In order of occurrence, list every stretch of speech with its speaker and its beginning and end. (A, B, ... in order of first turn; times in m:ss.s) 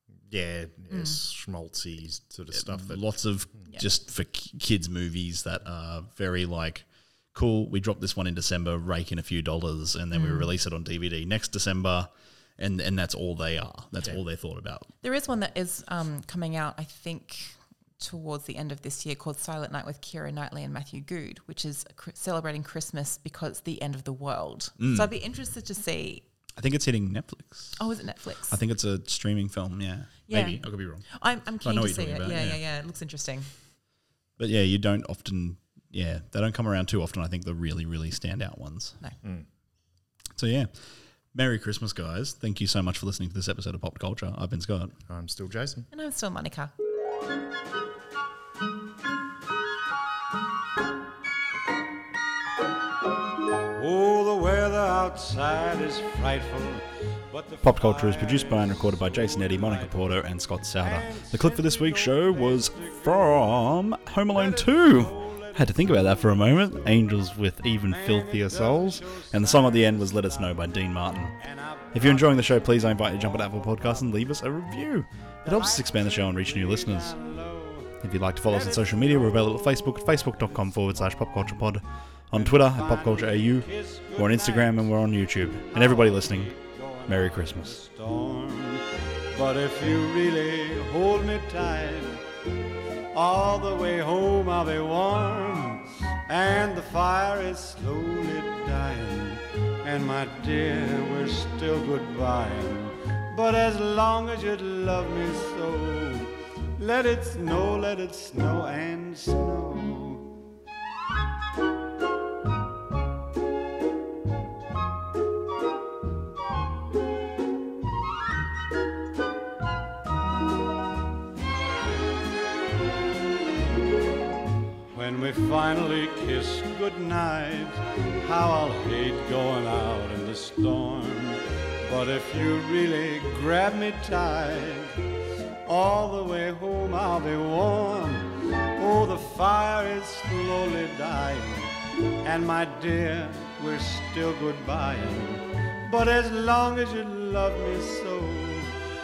0:00.3-0:03.6 A
0:00.9-0:01.2 B
0:02.5-0:14.9 C
0:10.1-0:10.5 B
0:15.0-0:26.2 B
0:24.8-0:25.1 C
0:26.6-0:27.8 C
0:27.8-0:28.6 B
0:28.5-0:32.6 C
0:30.3-0:33.5 B
0:34.4-0:39.0 C
0:40.4-0:45.0 C
0:45.1-0:45.9 A
0:45.9-0:46.7 B
0:53.7-1:00.0 D
0:57.6-1:11.4 C
1:00.8-1:03.5 D
1:04.3-1:07.0 D
1:07.8-1:10.7 D
1:11.3-1:14.3 D
1:11.9-1:17.2 C
1:15.4-1:20.6 D
1:18.0-1:26.5 C
1:22.3-1:25.1 D
1:25.6-1:32.2 D
1:27.1-1:27.8 C
1:33.1-1:50.3 D
2:04.9-2:14.9 D
2:15.6-2:28.7 D